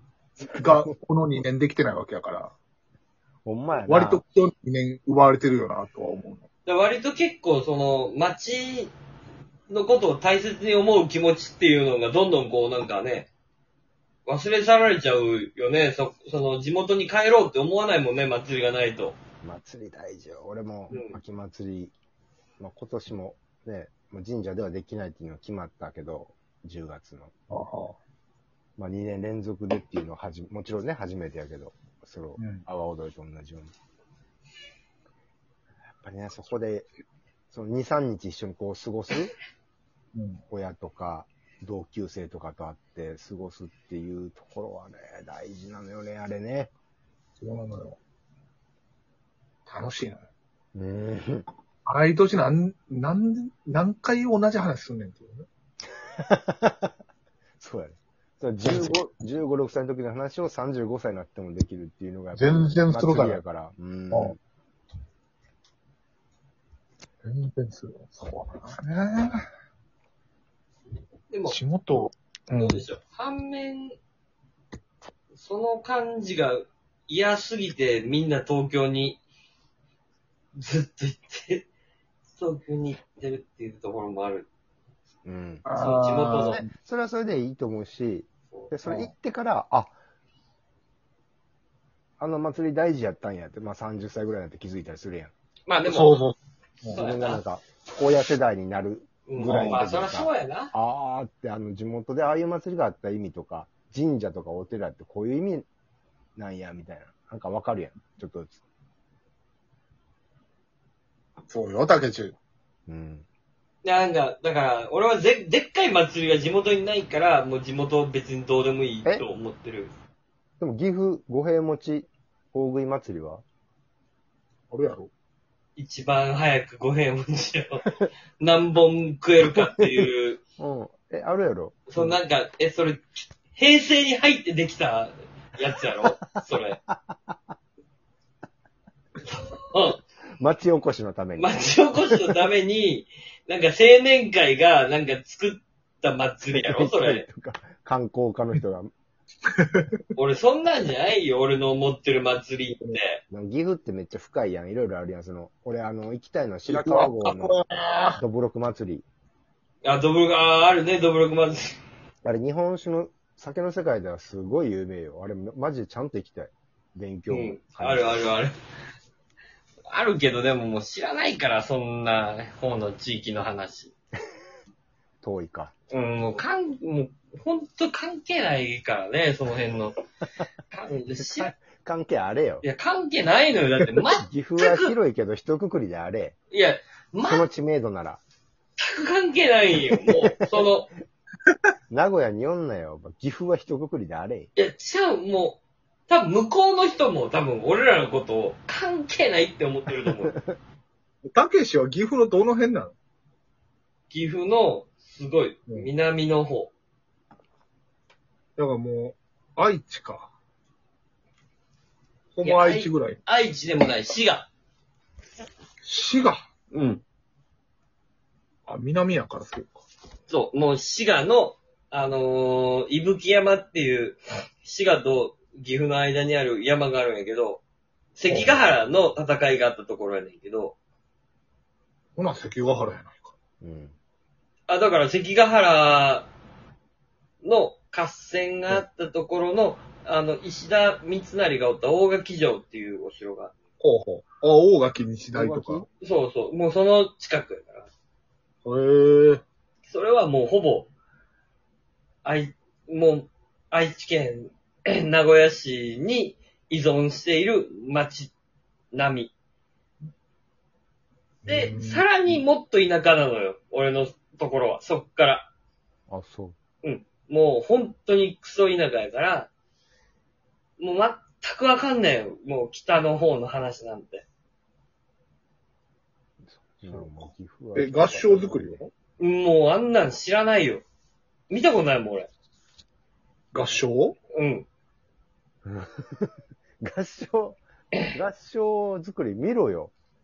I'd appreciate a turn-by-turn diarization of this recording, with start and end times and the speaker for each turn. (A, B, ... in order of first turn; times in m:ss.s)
0:00.4-0:02.6 A
0:00.4-0:00.9 B
0:03.4-0:04.2 B
0:03.8-0:06.4 A
0:06.7-0:08.9 C
0:09.7-0:13.3 C
0:14.3-0:19.2 C
0:19.4-0:21.9 B
0:20.9-0:21.2 C
0:22.6-0:27.3 B
0:27.5-0:28.0 A
0:28.8-0:33.7 B
0:32.4-0:32.7 A
0:36.0-0:36.9 B
0:37.5-0:39.4 B
0:40.2-0:40.4 A
0:40.5-0:46.7 B
0:47.4-0:48.0 A
0:49.7-0:50.2 A
0:50.7-0:51.5 B
0:51.9-0:55.5 A
0:56.2-0:56.9 B
0:57.6-1:04.4 B
0:58.7-0:59.0 A
1:02.4-1:03.4 A
1:04.1-1:04.4 A
1:07.2-1:09.4 A
1:11.3-1:11.6 C
1:11.5-1:12.8 A
1:12.6-1:14.0 C
1:15.3-1:19.2 C
1:20.6-1:21.7 C
1:22.4-1:24.5 C
1:25.2-1:29.9 B
1:25.6-1:26.7 A
1:25.7-1:26.6 C
1:28.8-1:29.1 A
1:32.2-1:35.3 B
1:35.7-1:36.2 C
1:35.9-1:37.0 A
1:36.9-1:37.4 C
1:36.9-1:45.7 B
1:39.3-1:40.7 C
1:39.4-1:39.8 A
1:46.4-1:48.6 B
1:51.5-1:52.4 A
1:52.9-1:53.3 B
1:53.8-1:59.9 C
2:00.6-2:03.4 B
2:04.7-2:05.1 A
2:05.8-2:10.4 C
2:09.5-2:10.0 B
2:10.6-2:12.2 B
2:11.9-2:16.8 C
2:16.9-2:17.4 B
2:19.3-2:20.0 C
2:20.4-2:22.2 B
2:21.4-2:27.3 C
2:26.5-2:28.9 B
2:29.4-2:30.0 A
2:30.2-2:33.2 C
2:32.7-2:33.0 A
2:33.3-2:37.6 B
2:36.7-2:38.2 A
2:38.2-2:39.0 B
2:39.8-2:41.8 C
2:42.2-2:48.2 B
2:47.3-2:48.5 C
2:49.9-2:53.9 C
2:55.2-2:55.7 B
2:55.9-3:00.0 C
3:00.7-3:01.5 C
3:01.2-3:02.6 B
3:02.6-3:04.9 C
3:04.2-3:06.4 B
3:06.5-3:07.4 C
3:07.2-3:08.2 B
3:08.8-3:10.9 C
3:10.2-3:10.7 B
3:11.9-3:14.5 B
3:14.6-3:20.4 C
3:21.2-3:23.0 A
3:24.1-3:26.7 C
3:28.6-3:30.3 A
3:32.4-3:33.2 A
3:32.4-3:34.5 C
3:35.8-3:36.4 A
3:36.7-3:37.0 C
3:38.7-3:39.8 A
3:40.3-3:47.6 C
3:48.2-3:50.8 C
3:48.3-3:48.5 A
3:52.2-3:53.4 A
3:53.6-3:54.0 B
3:54.7-3:56.3 C
3:57.4-4:03.5 C
4:03.8-4:05.9 A
4:05.4-4:07.9 C
4:05.5-4:05.8 B
4:08.6-4:09.4 A
4:09.9-4:10.9 C
4:12.2-4:18.3 C
4:18.9-4:19.3 C
4:21.4-4:22.1 A
4:21.5-4:25.5 C
4:26.1-4:26.6 B
4:26.8-4:29.5 C
4:30.8-4:34.3 C
4:36.5-4:38.8 B
4:36.9-4:38.9 A
4:39.2-4:40.8 C
4:41.5-4:42.3 C
4:43.5-4:44.2 A
4:44.3-4:44.7 C
4:45.6-4:49.9 B